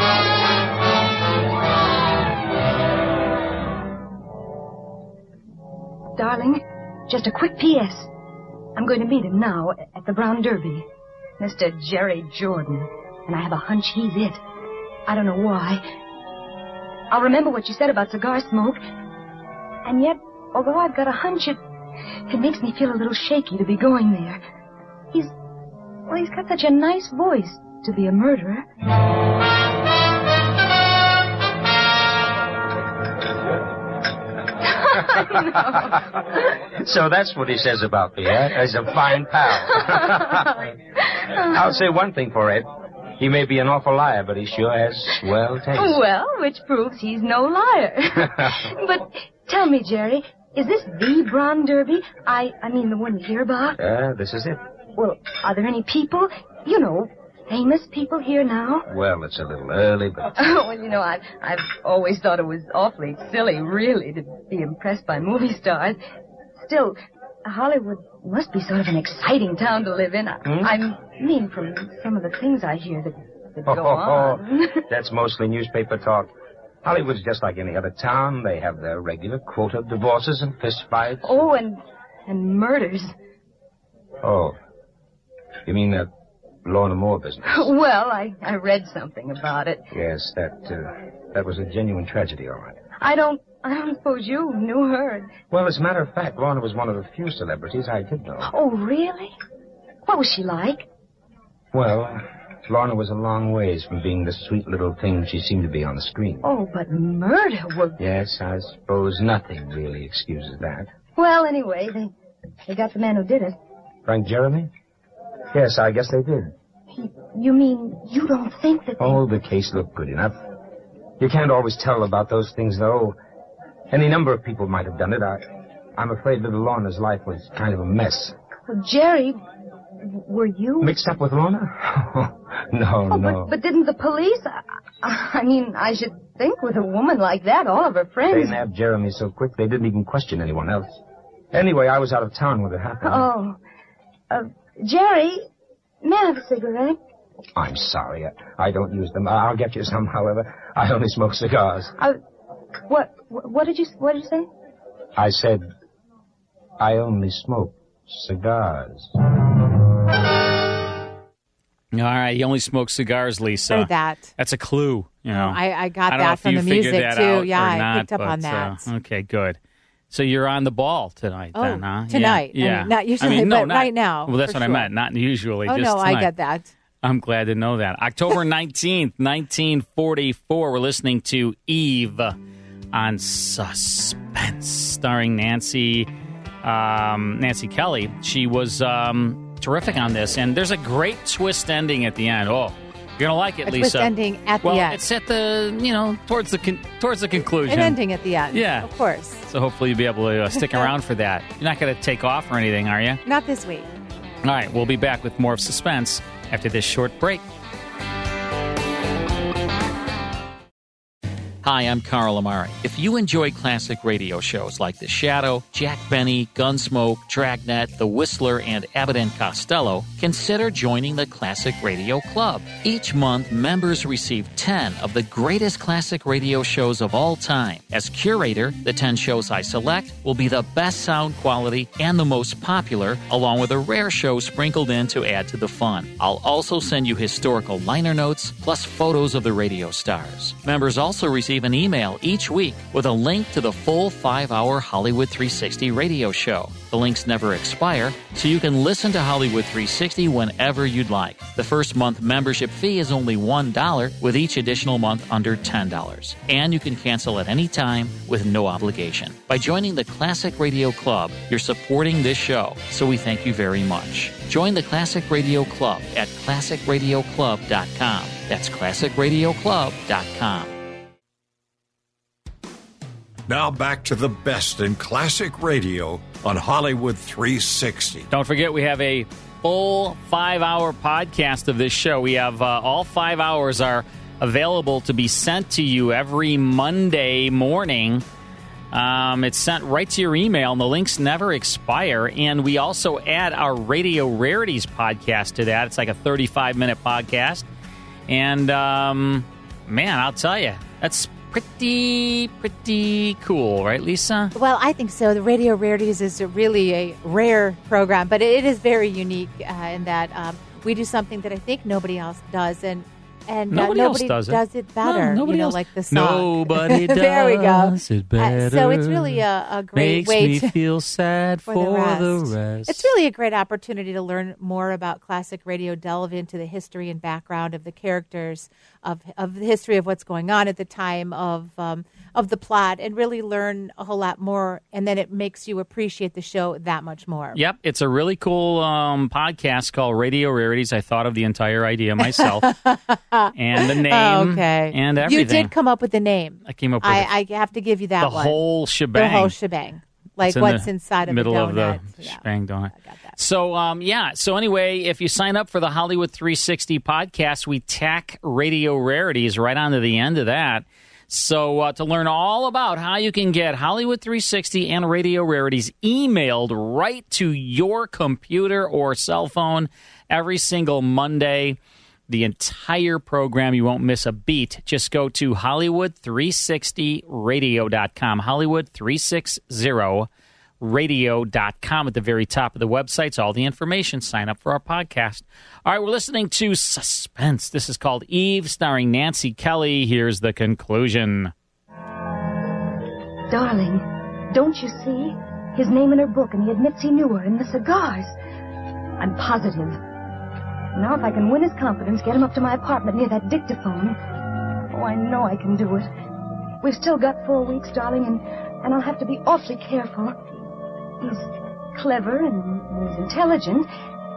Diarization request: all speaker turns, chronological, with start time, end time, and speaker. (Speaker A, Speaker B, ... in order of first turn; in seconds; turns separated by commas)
Speaker A: 6.2-8.1, Speaker A: 8.8-10.9, Speaker A: 11.4-14.4, Speaker A: 15.1-15.8, Speaker A: 17.1-18.8, Speaker A: 19.9-21.6, Speaker A: 22.3-24.4, Speaker A: 26.1-28.6, Speaker A: 34.7-36.0, Speaker B: 36.8-40.5, Speaker A: 39.8-41.6, Speaker B: 41.5-42.7, Speaker B: 43.2-46.0, Speaker A: 45.8-53.8, Speaker B: 48.2-48.5, Speaker B: 53.8-54.6, Speaker A: 55.0-58.9, Speaker B: 58.9-60.5, Speaker A: 60.4-66.0, Speaker A: 66.6-74.8, Speaker B: 70.5-70.7, Speaker B: 73.7-76.3, Speaker B: 76.8-81.4, Speaker A: 81.2-83.1, Speaker B: 84.2-84.6, Speaker B: 85.7-86.1, Speaker B: 86.6-87.7, Speaker A: 87.5-89.8, Speaker B: 89.9-92.8, Speaker A: 93.0-95.4, Speaker B: 95.5-98.5, Speaker A: 98.5-99.3, Speaker A: 100.1-100.9, Speaker B: 101.7-106.5, Speaker A: 106.4-108.0, Speaker B: 108.0-110.9, Speaker A: 111.2-112.1, Speaker A: 112.7-113.5, Speaker B: 114.1-114.7, Speaker B: 115.5-116.5, Speaker A: 116.9-119.2, Speaker B: 119.0-120.3, Speaker B: 121.2-123.2, Speaker B: 123.9-125.5, Speaker B: 126.0-128.3, Speaker A: 128.7-129.4, Speaker A: 130.0-130.9, Speaker B: 130.8-133.5, Speaker A: 133.1-138.6, Speaker B: 138.3-141.0, Speaker B: 141.5-143.3, Speaker A: 143.0-143.6, Speaker A: 144.3-145.4, Speaker A: 146.0-147.0, Speaker B: 147.6-151.9, Speaker A: 152.9-154.5, Speaker B: 155.2-155.7, Speaker B: 156.8-159.1, Speaker C: 161.9-169.6, Speaker D: 163.7-164.3, Speaker D: 165.3-168.9, Speaker C: 170.1-176.3, Speaker D: 171.6-174.9, Speaker D: 175.7-176.7, Speaker C: 177.0-182.4, Speaker C: 182.9-186.1, Speaker C: 186.6-198.0, Speaker D: 193.6-195.0, Speaker D: 197.7-199.4, Speaker C: 198.5-198.9, Speaker C: 199.4-203.2, Speaker D: 200.5-200.9, Speaker D: 203.2-203.9, Speaker C: 204.4-207.4, Speaker C: 211.6-270.8, Speaker E: 273.5-278.3, Speaker C: 278.3-288.2, Speaker C: 288.9-297.6, Speaker C: 298.3-304.5, Speaker D: 304.6-320.8, Speaker C: 313.7-323.1, Speaker D: 321.6-337.6, Speaker C: 337.6-342.7, Speaker D: 342.2-348.6, Speaker C: 343.6-345.7, Speaker C: 346.6-347.3, Speaker C: 348.2-349.6, Speaker D: 349.1-352.4, Speaker C: 350.4-371.8, Speaker D: 353.0-353.3, Speaker C: 372.3-380.3, Speaker C: 380.8-391.5, Speaker A: 393.5-398.3, Speaker A: 399.2-400.0, Speaker A: 400.9-404.2, Speaker A: 404.9-406.1, Speaker A: 406.8-410.6, Speaker A: 411.2-413.9